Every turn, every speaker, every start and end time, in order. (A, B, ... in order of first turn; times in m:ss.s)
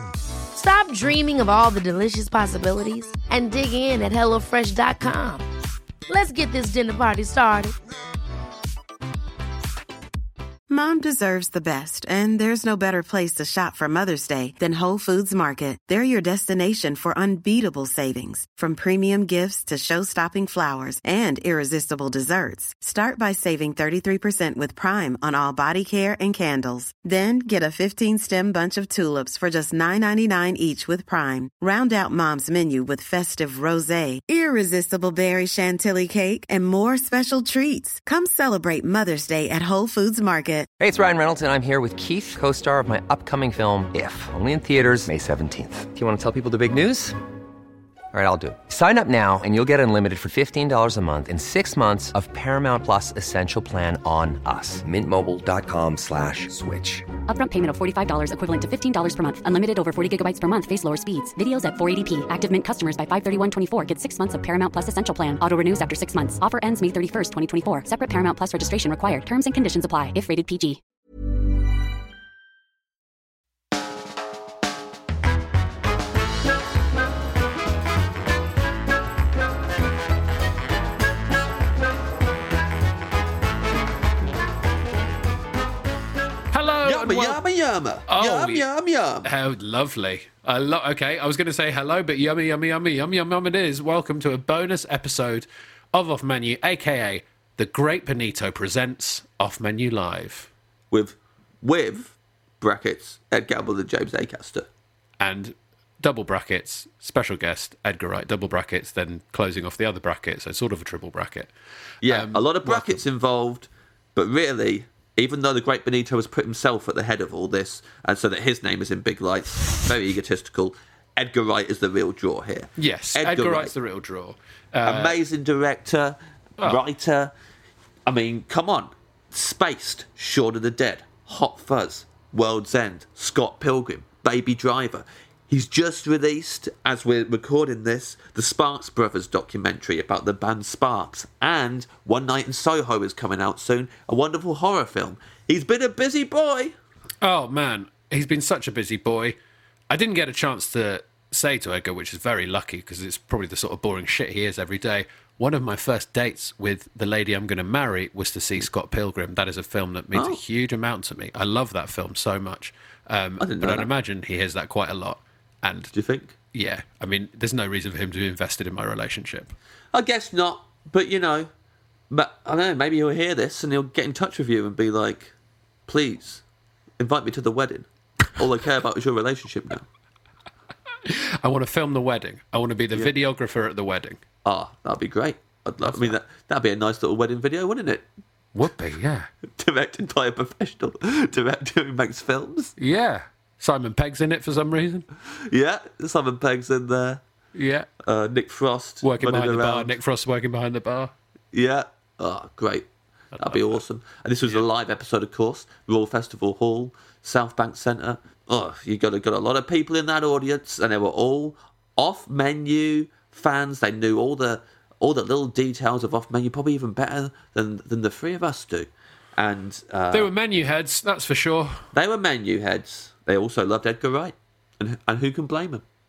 0:00.5-0:05.5 A
0:06.1-0:07.8 A
0:10.7-0:40.7 B
0:40.8-0:47.1 C
0:48.1-0:57.0 C
0:57.3-1:10.8 D
1:26.5-1:27.4 E
1:26.8-1:29.3 F
1:28.1-1:28.7 E
1:29.2-1:40.5 E
1:40.9-1:44.7 F
1:45.2-1:51.5 E
1:52.0-2:03.8 F
1:52.0-1:53.0 E
2:02.8-2:05.2 E
2:04.8-2:07.3 F
2:08.1-2:26.7 F
2:27.2-2:29.4 E
2:29.9-2:45.9 E
2:40.1-2:40.4 F
2:43.4-2:43.9 F
2:45.9-2:46.4 F
2:46.5-2:49.5 E
2:49.9-2:51.5 F
2:52.1-2:55.3 F
2:55.9-2:56.4 F
2:57.0-2:59.8 F
3:01.1-3:04.2 E
3:04.4-3:08.0 F
3:05.8-3:06.2 E
3:08.6-3:09.3 E
3:09.6-3:12.8 F
3:12.8-3:15.1 E
3:15.4-3:17.2 F
3:17.6-3:17.9 E
3:18.0-3:19.9 F
3:19.0-3:21.1 E
3:21.5-3:22.9 F
3:23.4-3:23.8 E
3:23.4-3:40.3 F
3:40.1-3:41.8 E
3:41.9-3:45.8 F